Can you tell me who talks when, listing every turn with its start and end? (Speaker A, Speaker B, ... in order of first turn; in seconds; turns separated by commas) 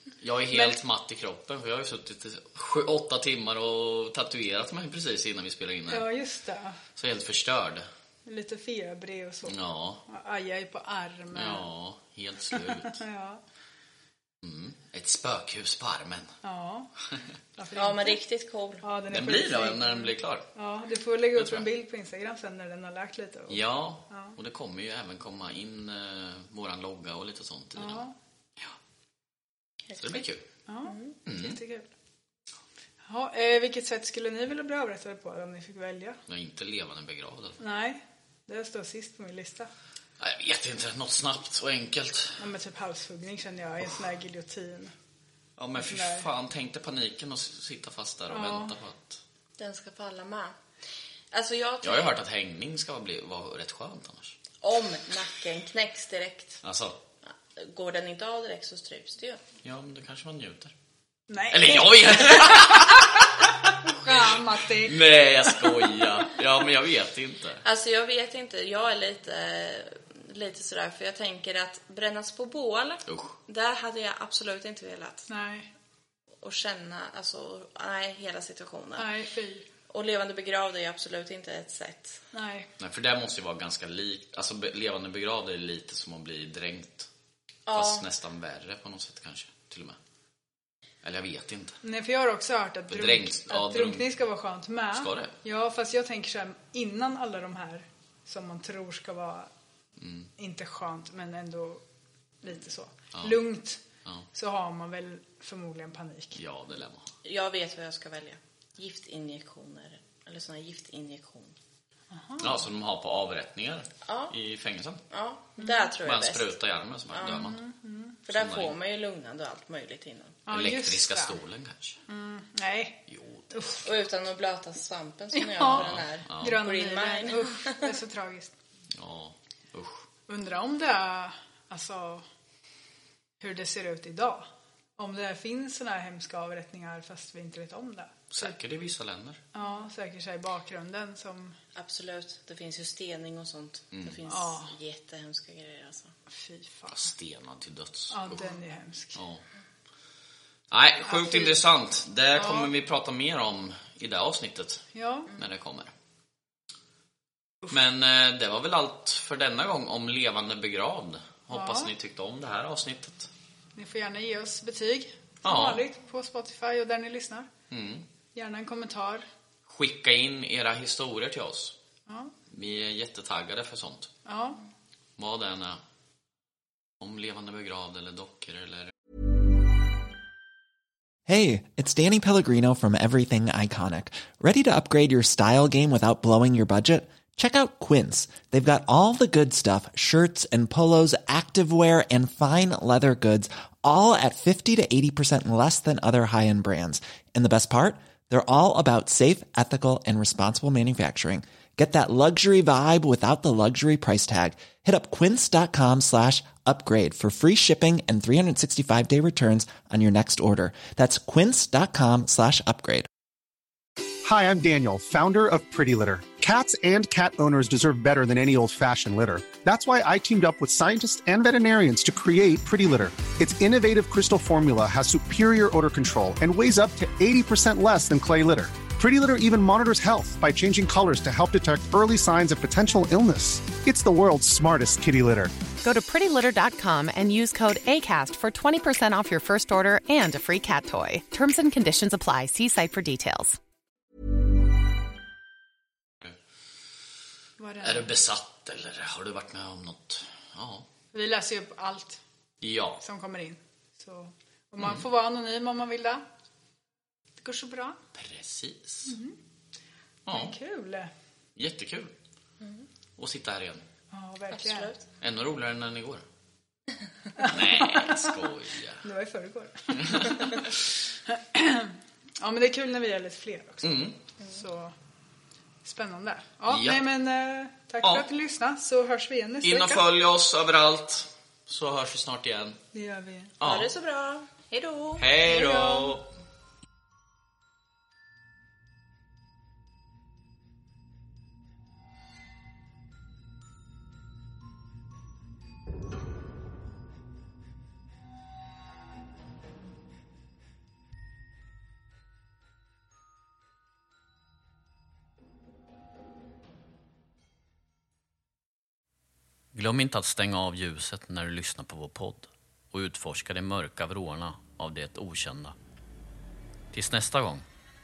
Speaker A: 0.2-6.1, Speaker B: 0.5-0.8, Speaker B: 5.9-6.8, Speaker A: 7.0-7.8, Speaker B: 8.3-11.7, Speaker A: 9.5-10.0, Speaker A: 11.3-13.0, Speaker B: 12.5-13.4, Speaker A: 14.4-16.4, Speaker B: 16.4-16.9, Speaker B: 17.6-18.2, Speaker C: 17.8-18.9, Speaker B: 18.8-24.4, Speaker A: 19.1-20.5, Speaker A: 21.4-21.7, Speaker A: 23.5-28.1, Speaker B: 27.8-28.1, Speaker C: 29.9-30.2, Speaker A: 30.0-30.4, Speaker B: 30.7-31.9, Speaker C: 30.9-31.1, Speaker A: 31.3-31.6, Speaker B: 33.0-36.2, Speaker A: 36.3-37.6, Speaker B: 37.6-39.7, Speaker A: 40.2-42.4, Speaker B: 42.4-44.9, Speaker A: 45.6-49.2, Speaker B: 45.8-46.3, Speaker B: 48.3-48.8, Speaker C: 49.6-50.6, Speaker C: 51.3-52.1, Speaker A: 51.8-54.4, Speaker C: 54.6-56.6, Speaker A: 56.6-57.0, Speaker C: 57.6-59.4, Speaker A: 59.6-60.7, Speaker B: 61.3-63.3, Speaker A: 61.5-67.6, Speaker B: 63.8-66.0, Speaker C: 67.6-75.3, Speaker A: 73.1-73.4, Speaker B: 75.3-75.7, Speaker C: 76.4-79.1, Speaker B: 79.0-79.7, Speaker C: 79.9-82.2, Speaker B: 82.3-82.7, Speaker A: 82.8-87.1, Speaker C: 87.7-88.1, Speaker A: 87.7-90.0, Speaker A: 91.0-91.8, Speaker B: 91.8-99.5, Speaker A: 92.9-94.1, Speaker A: 94.9-95.4, Speaker A: 100.0-100.3, Speaker B: 100.4-101.8, Speaker B: 102.4-106.4, Speaker A: 103.1-103.4, Speaker A: 106.4-107.1, Speaker C: 107.2-111.5, Speaker B: 112.1-112.6, Speaker A: 112.4-115.0, Speaker C: 114.0-114.3, Speaker C: 115.1-116.5, Speaker B: 115.6-115.9, Speaker A: 116.0-117.6, Speaker C: 117.1-117.4, Speaker B: 117.2-118.2, Speaker C: 118.3-120.4, Speaker A: 118.3-118.7, Speaker B: 120.5-121.4, Speaker A: 120.5-122.0, Speaker B: 122.1-123.9, Speaker A: 123.1-123.8, Speaker C: 123.8-128.0, Speaker B: 125.3-128.5, Speaker A: 125.7-126.6, Speaker A: 128.9-130.0, Speaker B: 130.3-132.2, Speaker B: 133.4-138.6, Speaker A: 138.3-139.4, Speaker B: 139.5-141.6, Speaker C: 141.8-146.1, Speaker A: 143.9-144.2, Speaker B: 144.3-144.7, Speaker B: 146.3-147.1, Speaker A: 146.9-148.6, Speaker B: 148.1-149.2, Speaker A: 149.2-149.4, Speaker A: 150.7-155.9, Speaker B: 151.0-151.6, Speaker B: 152.3-152.7, Speaker B: 154.9-155.3, Speaker A: 157.7-163.3, Speaker B: 161.5-161.9, Speaker B: 163.8-167.5, Speaker A: 165.4-165.8, Speaker A: 167.7-168.1, Speaker B: 168.3-169.3, Speaker A: 169.7-171.8, Speaker B: 172.1-172.3, Speaker A: 172.5-174.1, Speaker B: 174.2-174.6, Speaker A: 175.2-175.8, Speaker A: 177.0-178.9, Speaker D: 181.3-213.1, Speaker E: 214.2-235.5, Speaker F: 235.8-243.6, Speaker B: 247.6-248.1, Speaker A: 247.8-250.9, Speaker B: 251.1-252.2, Speaker A: 252.6-253.0, Speaker B: 253.0-256.2, Speaker B: 257.4-258.0, Speaker A: 258.1-259.2, Speaker B: 259.1-259.4, Speaker A: 260.3-260.6, Speaker B: 260.3-261.1, Speaker A: 261.6-262.1, Speaker C: 262.6-262.9, Speaker A: 263.2-263.8, Speaker B: 264.1-264.9, Speaker C: 264.5-265.0, Speaker A: 265.2-266.2, Speaker B: 267.4-268.4, Speaker A: 267.4-269.0, Speaker B: 269.0-270.8, Speaker A: 269.9-270.7, Speaker B: 271.3-274.9, Speaker A: 273.8-274.2, Speaker B: 275.9-280.1, Speaker A: 276.7-277.0, Speaker A: 279.6-282.8, Speaker B: 282.9-283.6, Speaker A: 283.6-283.9, Speaker C: 283.6-285.3, Speaker A: 285.2-286.2, Speaker B: 285.5-286.2, Speaker A: 309.7-315.8, Speaker A: 316.9-317.7